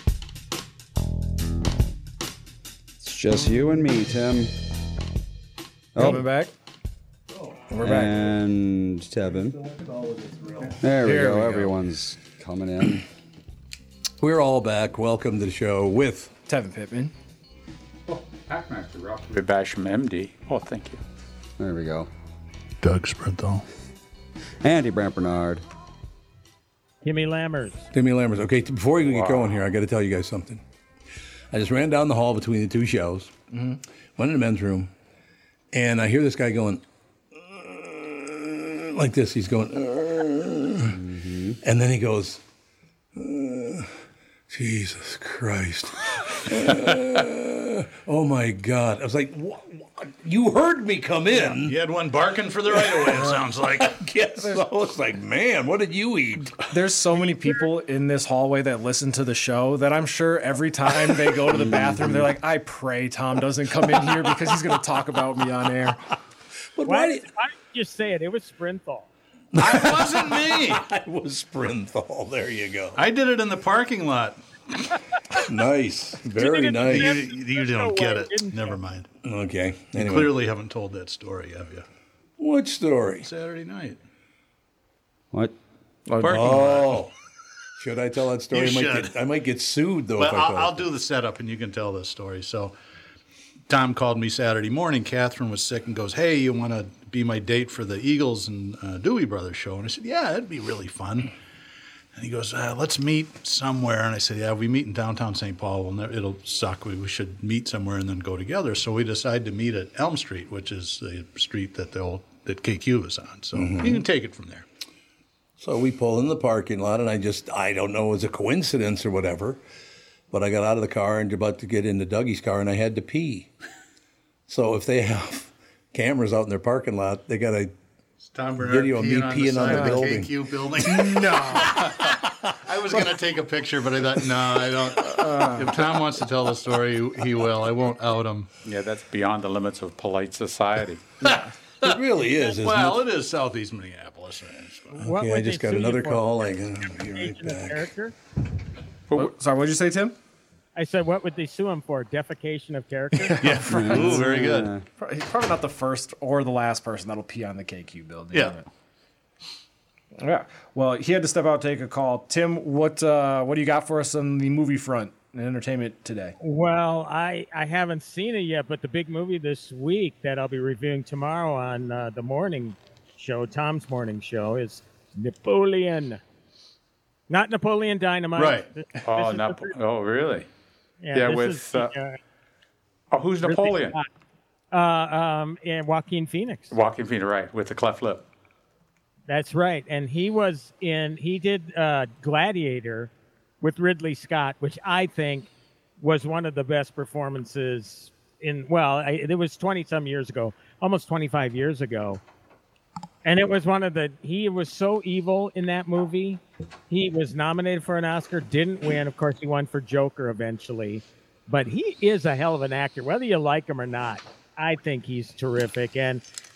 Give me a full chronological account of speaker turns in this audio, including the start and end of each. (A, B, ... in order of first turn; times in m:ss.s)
0:03.0-0:04.5 A
0:05.9-0:06.3 A
0:05.9-0:06.5 B
0:07.7-0:08.2 B
0:07.8-0:09.6 A
0:10.8-0:13.0 A
0:11.0-0:11.8 B
0:14.2-0:16.3 C
0:16.5-0:17.1 B
0:18.1-0:21.0 D
0:21.6-0:22.1 A
0:22.8-0:23.6 E
0:24.6-0:25.6 A
0:27.0-0:27.9 F
0:27.9-0:30.6 C
0:29.0-0:29.6 D
0:31.5-0:33.3 C
0:34.2-0:34.9 C
0:35.7-0:36.8 C
0:37.4-0:41.0 C
0:40.9-0:41.6 A
0:41.6-0:42.4 C
0:43.2-0:43.9 C
0:44.5-0:51.8 C
0:51.5-0:54.0 E
0:52.7-0:56.8 C
0:56.7-1:06.0 B
1:01.5-1:02.3 A
1:06.8-1:07.3 C
1:06.8-1:09.1 F
1:09.5-1:13.0 C
1:09.6-1:10.8 E
1:12.9-1:14.4 E
1:15.4-1:17.2 C
1:16.4-1:18.8 F
1:16.8-1:19.1 E
1:19.2-1:20.4 C
1:19.9-1:21.8 E
1:22.4-1:23.3 C
1:23.2-1:24.0 E
1:26.1-1:26.8 B
1:26.2-1:27.1 C
1:26.2-1:27.0 E
1:27.8-1:30.9 C
1:28.5-1:29.1 E
1:30.2-1:32.7 E
1:33.7-1:41.3 E
1:42.1-1:54.6 E
1:53.5-1:54.0 C
1:55.6-1:59.6 C
2:00.3-2:03.5 C
2:04.5-2:07.7 C
2:08.2-2:18.5 E
2:08.6-2:10.3 C
2:09.6-2:10.0 B
2:10.8-2:11.6 C
2:11.0-2:11.8 B
2:15.2-2:15.8 B
2:18.6-2:21.0 D
2:21.2-2:21.9 E
2:21.8-2:23.0 C
2:22.5-2:25.0 E
2:25.0-2:28.1 F
2:25.0-2:27.9 C
2:29.1-2:29.3 D
2:29.1-2:30.2 B
2:30.7-2:33.5 F
2:33.3-2:34.3 B
2:33.3-2:34.8 E
2:33.7-2:34.8 A
2:35.0-2:38.6 B
2:38.3-2:38.6 E
2:40.2-2:46.4 B
2:46.4-2:56.2 F
2:57.3-2:59.7 F
2:58.4-2:58.7 E
2:59.0-3:00.5 D
3:01.0-3:02.2 F
3:01.1-3:01.9 D
3:03.1-3:04.0 D
3:03.4-3:04.0 F
3:04.7-3:06.8 F
3:06.7-3:08.2 D
3:09.3-3:22.2 F
3:23.2-3:36.2 F